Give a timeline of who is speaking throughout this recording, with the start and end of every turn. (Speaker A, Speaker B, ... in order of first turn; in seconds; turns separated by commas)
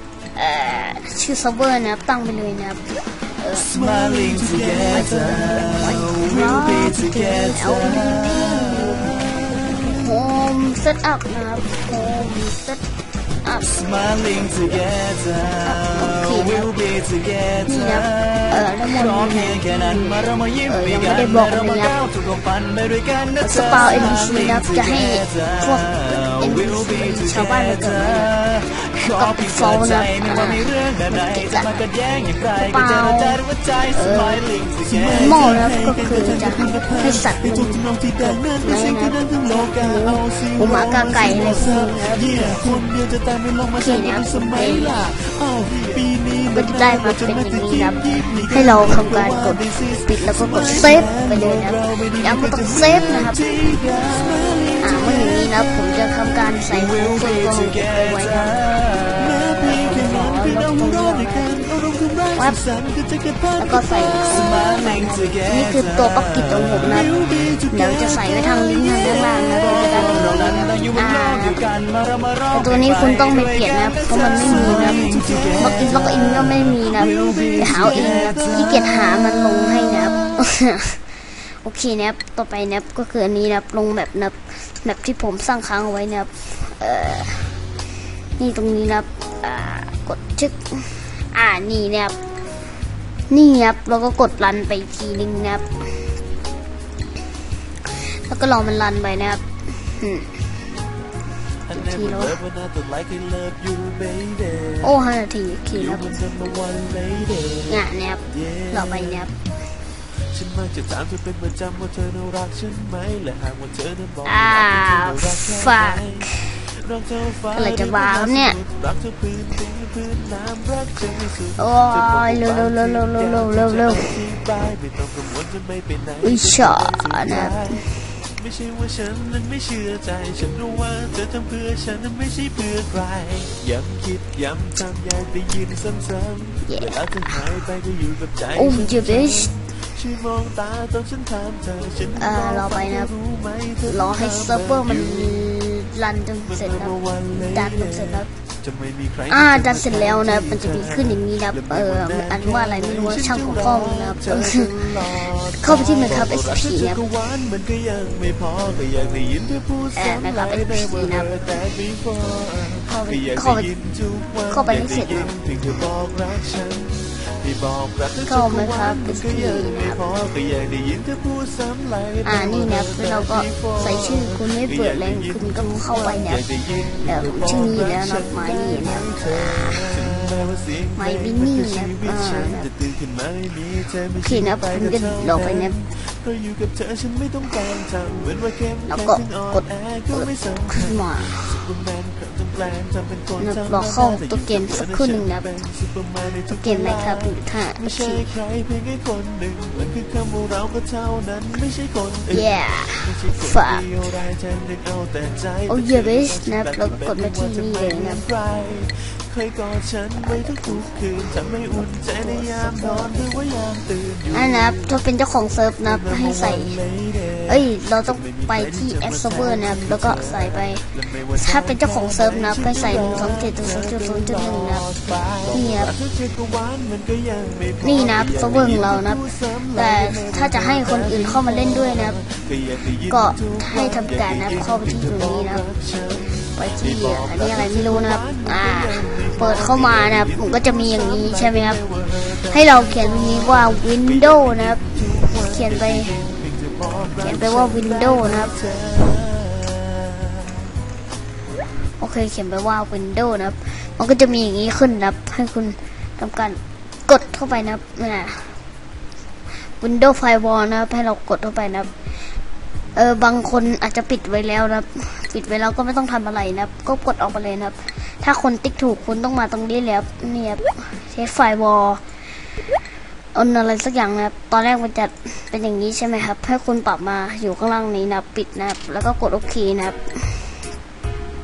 Speaker A: 0.3-3.7, Speaker B: 3.5-10.0, Speaker C: 3.7-6.3, Speaker A: 4.7-12.8, Speaker A: 13.4-16.7, Speaker B: 13.6-35.3, Speaker A: 17.6-22.0, Speaker A: 23.4-28.3, Speaker A: 29.1-31.9, Speaker A: 32.5-34.5, Speaker C: 34.8-55.9, Speaker A: 35.1-42.9, Speaker A: 43.7-45.1, Speaker A: 46.5-53.8, Speaker A: 54.8-58.6, Speaker B: 56.6-60.4, Speaker C: 59.2-64.5, Speaker A: 59.4-61.5, Speaker A: 62.3-62.6, Speaker A: 63.6-67.1, Speaker B: 64.3-67.6, Speaker C: 67.2-70.2, Speaker A: 67.7-71.6, Speaker B: 69.1-79.4, Speaker A: 72.5-75.0, Speaker C: 75.0-76.0, Speaker A: 75.6-81.0, Speaker C: 77.2-78.5, Speaker C: 80.0-80.3, Speaker A: 81.6-87.6, Speaker A: 88.4-92.2, Speaker A: 93.3-96.1, Speaker A: 97.8-100.5, Speaker C: 101.7-105.0, Speaker A: 101.7-102.4, Speaker A: 104.8-106.2, Speaker C: 105.7-109.3, Speaker A: 107.7-109.3, Speaker C: 110.3-127.8, Speaker A: 114.2-116.5, Speaker A: 117.5-118.6, Speaker A: 121.6-124.2, Speaker A: 126.2-128.0, Speaker C: 128.3-145.5, Speaker A: 136.7-137.4, Speaker A: 138.5-139.5, Speaker A: 142.2-143.1, Speaker A: 143.8-148.3, Speaker C: 146.5-214.9, Speaker A: 149.3-157.1, Speaker A: 159.9-161.5, Speaker A: 162.8-163.7, Speaker A: 164.5-165.3, Speaker A: 168.2-170.2, Speaker A: 172.2-176.4, Speaker A: 177.0-180.3, Speaker A: 180.9-182.7, Speaker A: 184.2-185.8, Speaker A: 188.9-191.7, Speaker A: 193.4-195.5, Speaker A: 196.5-198.3, Speaker A: 202.3-203.9, Speaker A: 205.7-208.2, Speaker A: 210.2-213.4, Speaker A: 214.3-216.8, Speaker C: 215.8-250.7, Speaker A: 217.5-225.9, Speaker A: 227.8-232.2, Speaker A: 233.1-235.7, Speaker A: 236.5-241.8, Speaker A: 242.3-246.2, Speaker A: 247.2-248.5, Speaker A: 252.0-258.6, Speaker A: 259.6-261.9, Speaker A: 262.9-272.0, Speaker A: 273.3-280.6